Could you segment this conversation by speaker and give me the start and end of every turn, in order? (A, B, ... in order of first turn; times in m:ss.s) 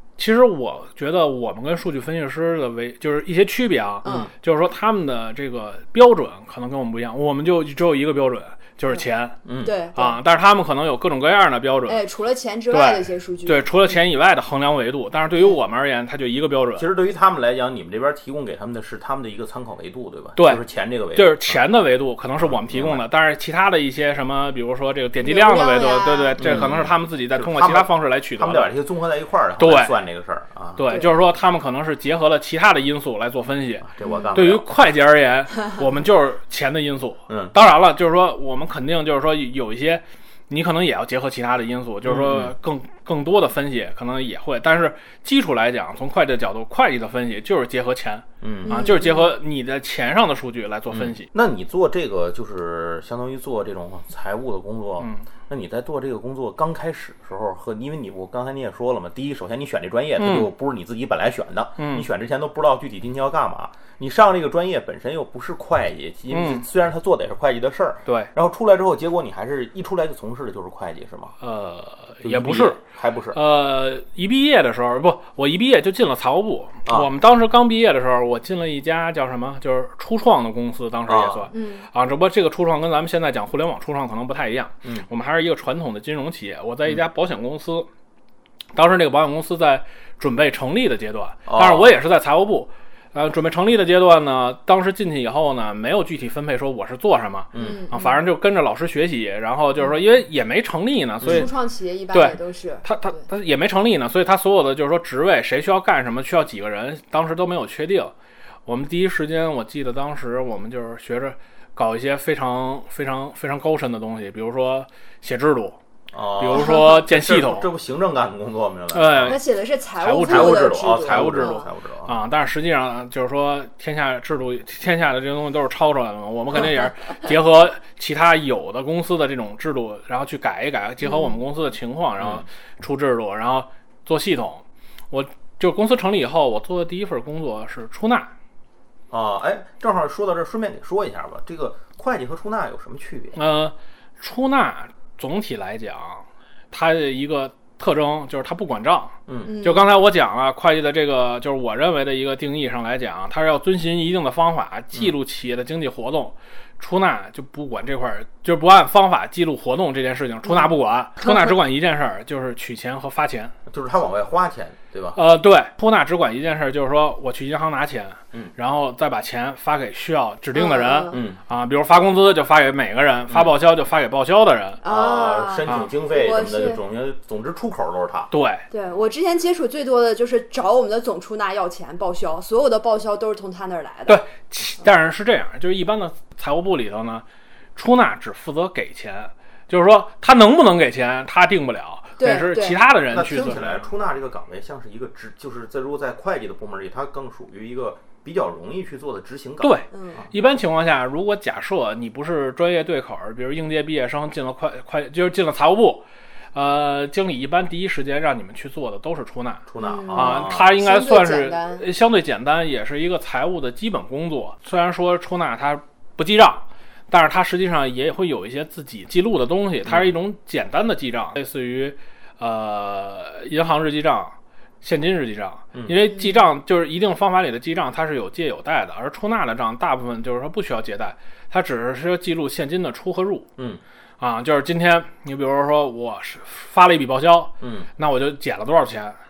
0:00.2-0:09.4 A
0:04.0-0:04.3 B
0:04.0-0:04.3 C
0:09.4-0:09.7 C
0:09.6-0:10.2 B
0:09.9-0:12.0 A
0:11.9-0:13.7 B
0:12.7-0:16.9 A
0:16.8-0:21.6 C
0:20.4-0:20.6 A
0:21.1-0:28.7 A
0:22.4-0:23.0 C
0:25.2-0:26.8 B
0:26.4-0:30.9 C
0:29.6-0:29.9 A
0:30.8-0:51.3 A
0:33.8-0:34.7 C
0:34.0-0:34.3 B
0:37.3-0:37.5 C
0:42.0-0:42.5 C
0:48.4-0:48.8 C
0:48.7-0:49.3 B
0:50.9-1:11.3 C
0:55.0-0:55.2 A
1:00.2-1:00.5 A
1:01.8-1:02.0 A
1:06.3-1:06.6 A
1:11.4-1:12.8 A
1:12.2-1:13.4 C
1:13.3-1:27.9 A
1:21.1-1:21.5 C
1:21.5-1:21.9 B
1:28.7-1:41.5 A
1:31.5-1:31.9 C
1:37.5-1:37.8 C
1:37.6-1:38.2 B
1:41.2-1:41.5 C
1:41.2-1:43.2 B
1:42.1-1:48.1 A
1:48.6-1:55.8 A
1:56.1-1:59.4 C
1:56.4-1:57.7 A
1:56.5-1:56.8 B
1:58.9-1:59.4 A
1:59.2-2:01.7 B
2:00.0-2:18.3 A
2:00.2-2:02.1 C
2:11.0-2:11.4 B
2:12.2-2:12.4 C
2:19.1-2:23.4 C
2:23.3-2:43.5 A
2:29.3-2:29.5 C
2:29.4-2:29.9 B
2:40.4-2:41.5 B
2:43.7-2:45.2 C
2:45.2-2:54.8 A
2:50.5-2:51.2 B
2:51.1-2:51.4 C
2:53.3-2:53.5 C
2:54.8-2:56.8 B
2:54.8-2:58.3 C
2:58.3-2:58.6 A
2:58.7-3:04.2 B
3:04.1-3:07.2 A
3:07.8-3:13.8 A
3:12.2-3:12.8 B
3:13.1-3:20.3 C
3:19.6-3:53.5 A
3:19.9-3:20.2 B
3:29.7-3:30.7 C
3:29.8-3:31.8 B
3:39.8-3:40.1 C
3:46.1-3:46.4 B
3:54.2-3:59.2 A
3:57.6-3:57.9 C